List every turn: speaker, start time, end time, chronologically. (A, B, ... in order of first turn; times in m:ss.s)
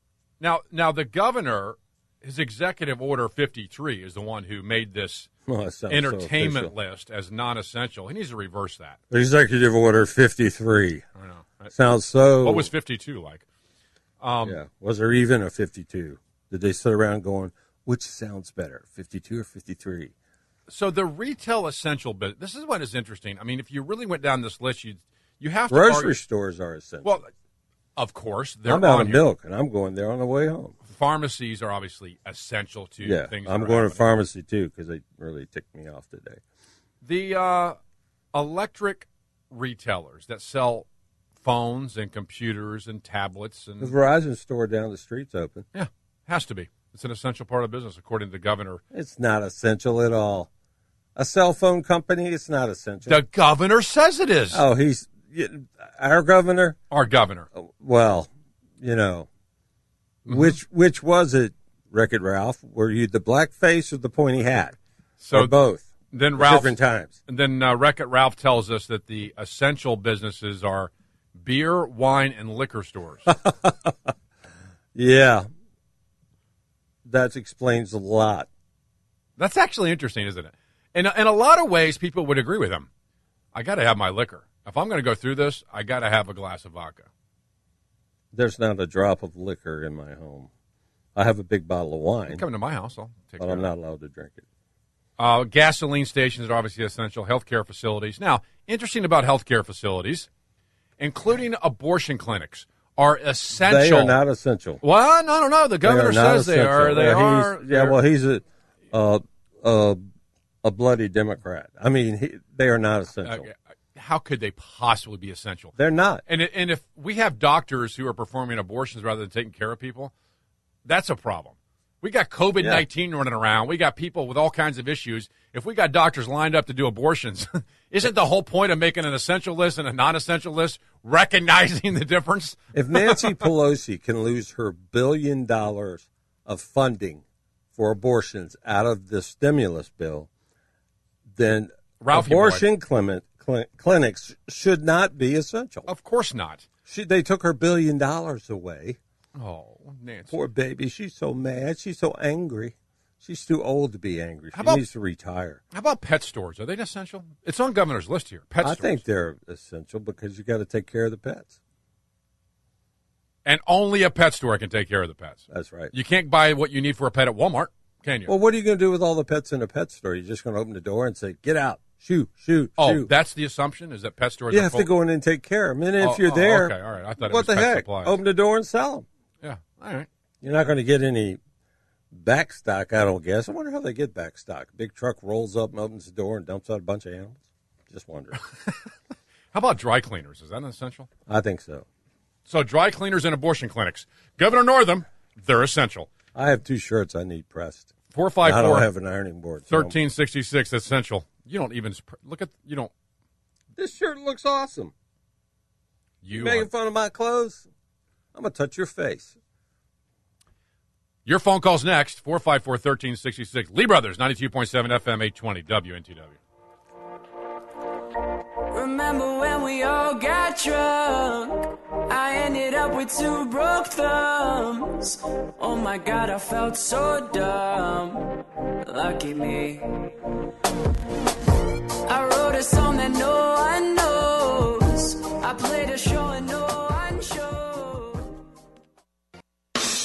0:00.4-0:05.3 A
0:05.5-0:06.7 B
0:05.9-0:09.0 A
0:09.1-0:11.0 B
0:11.2-0:11.8 A
0:11.7-0:12.7 B
0:12.4-0:13.4 A
0:14.2-0:14.6 A
0:14.4-0:20.1 B
0:20.7-0:26.2 A
0:25.7-0:27.2 B
0:27.0-0:27.3 A
0:28.0-0:29.2 A
0:28.7-0:30.8 B
0:30.9-0:34.1 A
0:33.0-0:36.4 B
0:37.0-0:37.8 A
0:38.3-0:40.9 A
0:41.4-0:44.0 A
0:43.8-0:45.7 B
0:45.7-0:48.8 A
0:48.9-0:50.5 B
0:51.2-0:53.2 B
0:53.1-0:54.6 A
0:54.5-0:56.8 B
0:56.9-0:57.5 A
0:57.5-0:58.3 B
0:58.8-0:59.3 B
1:00.3-1:00.6 A
1:00.3-1:04.8 B
1:05.2-1:05.6 A
1:05.3-1:07.2 B
1:06.1-1:13.3 A
1:13.3-1:14.1 B
1:15.0-1:15.5 B
1:17.0-1:18.5 B
1:19.4-1:22.9 A
1:23.5-1:27.1 A
1:28.3-1:30.5 B
1:31.2-1:32.4 B
1:32.3-1:33.7 A
1:33.4-1:34.4 B
1:35.2-1:40.3 A
1:41.0-1:44.2 A
1:43.6-1:44.8 B
1:44.8-1:48.0 A
1:45.8-1:50.1 B
1:50.6-1:53.5 B
1:53.2-1:55.8 A
1:55.8-1:56.2 B
1:56.3-2:00.1 A
2:00.8-2:13.4 A
2:02.6-2:02.8 B
2:12.7-2:17.2 B
2:17.8-2:20.3 B
2:21.4-2:25.9 B
2:22.0-2:22.7 A
2:25.9-2:26.7 A
2:26.9-2:29.0 B
2:29.4-2:30.4 A
2:30.3-2:35.6 B
2:34.5-2:34.8 A
2:35.7-2:39.0 A
2:38.6-2:41.6 B
2:43.4-2:48.3 A
2:45.5-2:45.9 B
2:48.3-2:53.1 B
2:52.8-2:54.9 A
2:54.5-2:59.1 B
2:56.0-2:58.2 A
2:59.4-3:00.1 A
3:00.4-3:01.4 B
3:02.1-3:08.4 B
3:09.5-3:11.1 A
3:11.3-3:11.9 B
3:12.5-3:16.1 A
3:16.4-3:20.0 B
3:18.1-3:18.9 A
3:19.7-3:22.9 A
3:23.8-3:24.9 B
3:26.2-3:26.7 A
3:26.3-3:27.7 B
3:28.3-3:29.4 B
3:31.3-3:36.4 A
3:38.7-3:41.6 C
3:42.1-3:48.2 C
3:48.9-3:49.8 C
3:52.1-3:58.1 C